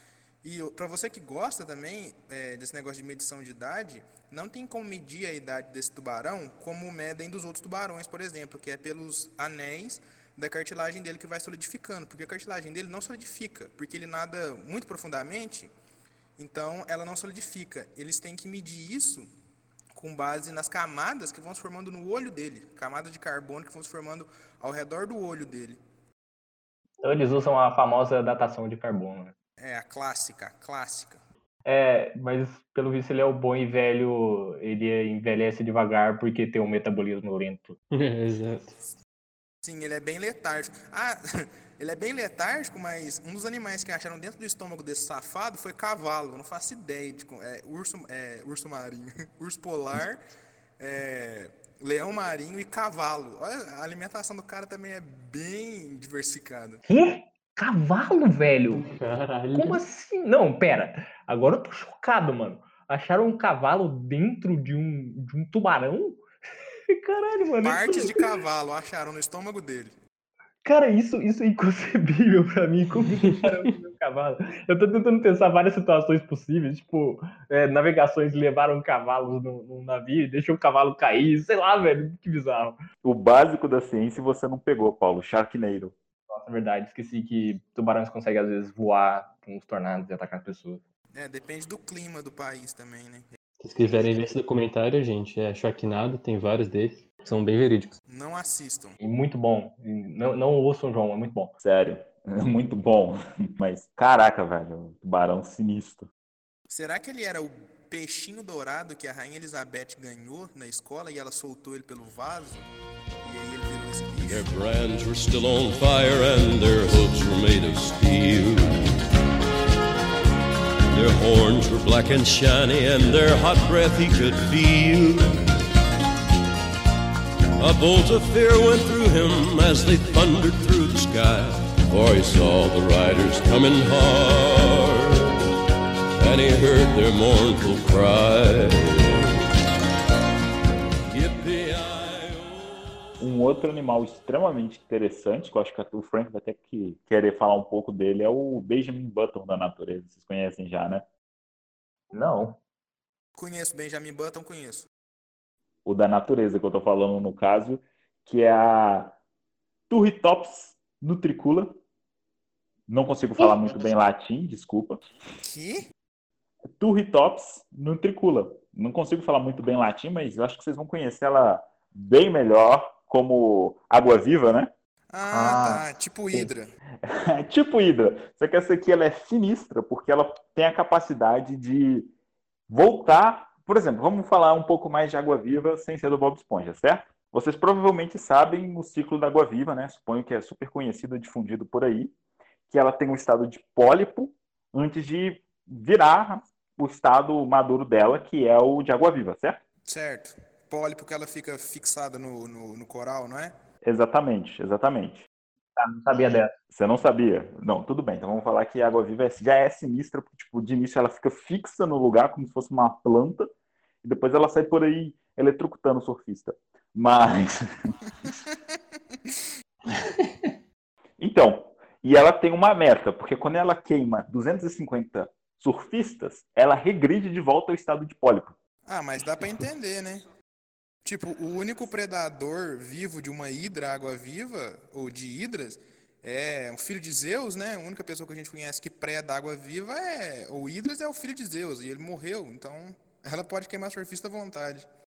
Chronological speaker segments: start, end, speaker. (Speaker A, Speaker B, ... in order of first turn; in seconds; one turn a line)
Speaker A: 0.4-15.7
Speaker A: 16.4-19.3
Speaker A: 19.9-25.8
Speaker B: 27.0-29.3
Speaker A: 29.6-31.2
Speaker B: 31.6-37.8
Speaker C: 37.9-38.8
Speaker A: 39.6-50.2
Speaker A: 50.8-56.8
Speaker B: 56.9-58.9
Speaker C: 58.8-59.8
Speaker B: 59.5-66.2
Speaker B: 66.9-68.3
Speaker A: 67.6-70.0
Speaker B: 70.6-82.8
Speaker C: 73.2-73.5
Speaker D: 83.0-85.9
Speaker B: 86.3-90.8
Speaker A: 91.1-93.3
Speaker C: 93.6-98.0
Speaker A: 98.1-99.0
Speaker B: 99.0-101.5
Speaker D: 101.6-106.1
Speaker A: 106.7-112.7
Speaker A: 113.2-114.5
Speaker E: 114.2-119.0
Speaker E: 120.9-125.4
Speaker E: 127.6-135.3
Speaker E: 136.2-139.4
Speaker E: 141.1-142.7
Speaker D: 143.2-151.1
Speaker B: 152.1-152.6
Speaker A: 153.3-154.9
Speaker D: 155.8-159.2
Speaker D: 159.9-161.8
Speaker D: 162.9-165.0
Speaker A: 165.4-165.8
Speaker D: 166.8-174.7
Speaker A: 175.1-176.7
Speaker B: 175.3-176.5
Speaker D: 177.0-182.1
Speaker D: 182.7-192.1
Speaker D: 192.7-199.6
Speaker A: 199.9-203.5
Speaker D: 203.8-205.2
Speaker B: 205.8-206.5
Speaker D: 206.7-213.5
Speaker D: 214.0-217.9
Speaker D: 221.2-228.6
Speaker A: 228.8-230.2
Speaker A: 231.0-244.9